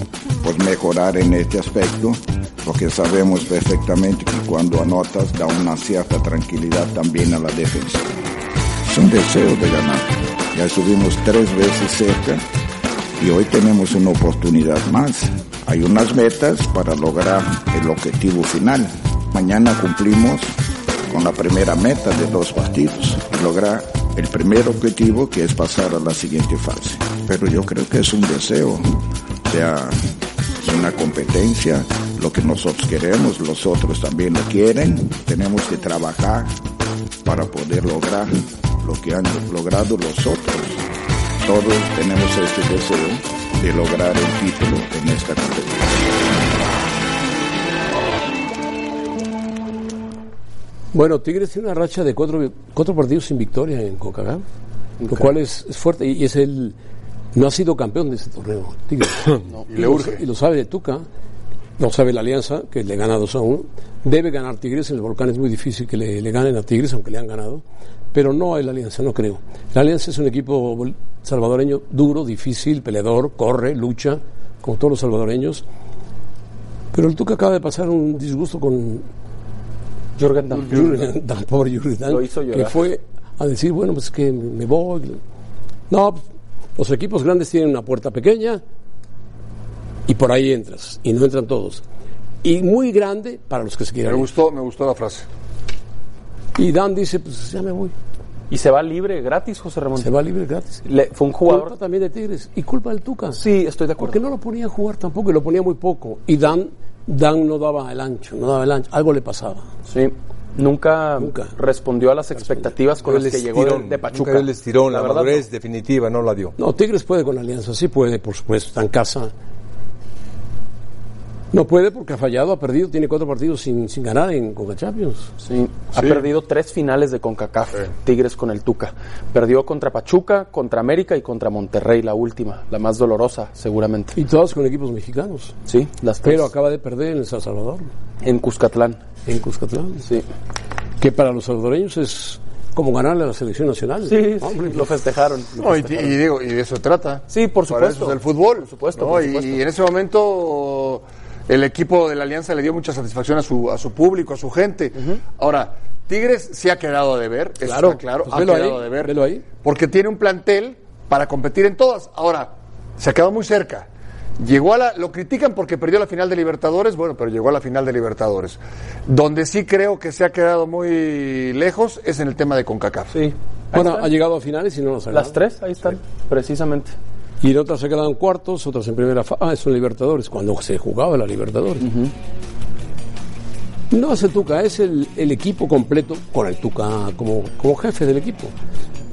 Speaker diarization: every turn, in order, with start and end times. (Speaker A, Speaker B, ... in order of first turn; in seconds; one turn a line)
Speaker A: 0.4-8.2
Speaker A: 8.8-12.4
Speaker A: 13.2-36.6
Speaker A: 37.2-40.8
Speaker A: 41.4-46.1
Speaker B: 50.9-54.4
Speaker C: 55.0-55.3
Speaker B: 55.1-56.8
Speaker B: 57.3-61.0
Speaker D: 59.7-60.2
Speaker B: 61.8-75.6
Speaker B: 76.9-79.0
Speaker C: 80.2-81.0
Speaker B: 80.5-85.2
Speaker C: 82.1-82.8
Speaker B: 85.9-86.2
Speaker B: 86.8-88.6
Speaker B: 90.1-91.8
Speaker B: 92.4-94.3
Speaker D: 94.0-95.2
Speaker B: 96.5-97.9
Speaker C: 98.5-100.1
Speaker B: 100.0-100.8
Speaker C: 100.8-101.7
Speaker B: 101.5-103.4
Speaker C: 103.3-104.2
Speaker B: 104.0-109.7
Speaker C: 109.9-115.5
Speaker B: 111.2-111.5
Speaker E: 113.0-116.5
Speaker B: 116.6-119.3
Speaker B: 121.5-125.3
Speaker C: 125.4-134.2
Speaker D: 125.9-126.2
Speaker B: 134.1-135.6
Speaker C: 135.7-136.5
Speaker B: 136.2-137.9
Speaker C: 138.2-139.0
Speaker B: 139.2-140.1
Speaker B: 141.0-144.8
Speaker C: 144.0-145.9
Speaker D: 145.6-163.9
Speaker C: 147.3-149.6
Speaker B: 157.7-159.4
Speaker D: 164.4-173.1
Speaker C: 173.1-174.1
Speaker B: 173.7-175.4
Speaker C: 175.1-176.9
Speaker B: 177.4-181.9
Speaker C: 181.8-182.1
Speaker B: 183.9-188.5